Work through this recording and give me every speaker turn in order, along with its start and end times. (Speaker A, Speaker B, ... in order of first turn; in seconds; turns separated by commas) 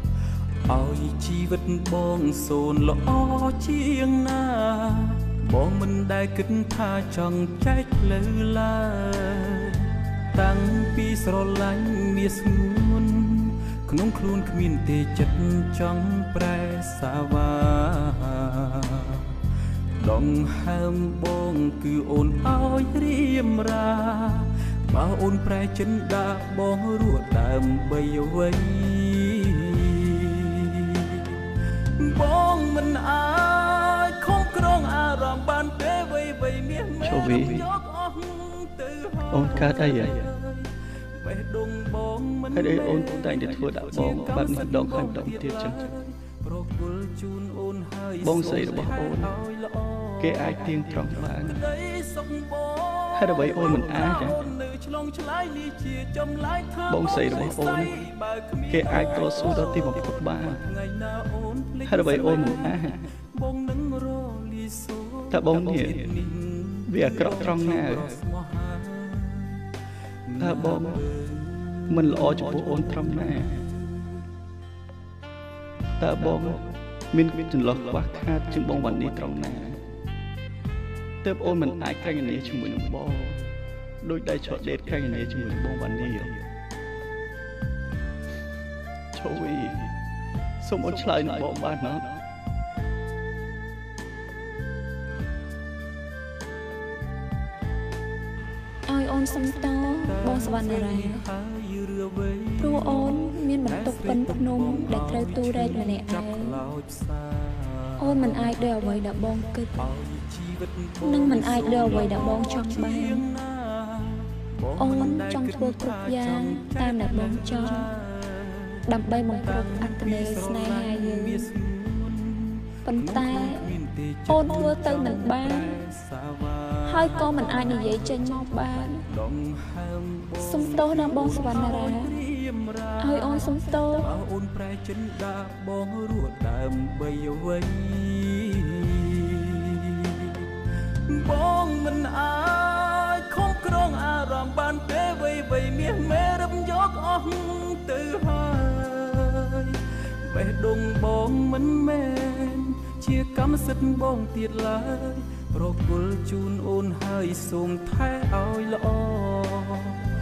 Speaker A: 0.7-19.3, Speaker A: 20.0-31.4, Speaker A: 32.0-69.6, Speaker B: 37.0-37.7, Speaker B: 39.3-40.3, Speaker B: 42.5-45.9, Speaker B: 48.2-49.3, Speaker B: 50.2-51.6, Speaker B: 53.1-54.4, Speaker B: 56.9-58.1, Speaker B: 58.7-60.6, Speaker B: 61.8-63.0, Speaker B: 65.3-66.2, Speaker B: 66.9-68.1, Speaker A: 70.3-74.1, Speaker B: 70.4-71.0, Speaker B: 71.9-73.6, Speaker B: 76.0-79.8, Speaker B: 81.2-83.4, Speaker B: 84.0-86.4, Speaker B: 89.1-89.8, Speaker B: 90.6-92.1, Speaker C: 98.9-101.2, Speaker A: 99.8-108.9, Speaker C: 102.6-106.6, Speaker C: 108.0-109.8, Speaker A: 109.8-128.3, Speaker C: 111.0-113.2, Speaker C: 114.8-117.9, Speaker C: 118.8-121.5, Speaker C: 122.8-123.6, Speaker C: 124.3-125.8, Speaker C: 126.8-129.0, Speaker A: 129.1-140.4, Speaker C: 130.4-132.1, Speaker C: 133.0-134.1, Speaker A: 141.1-160.0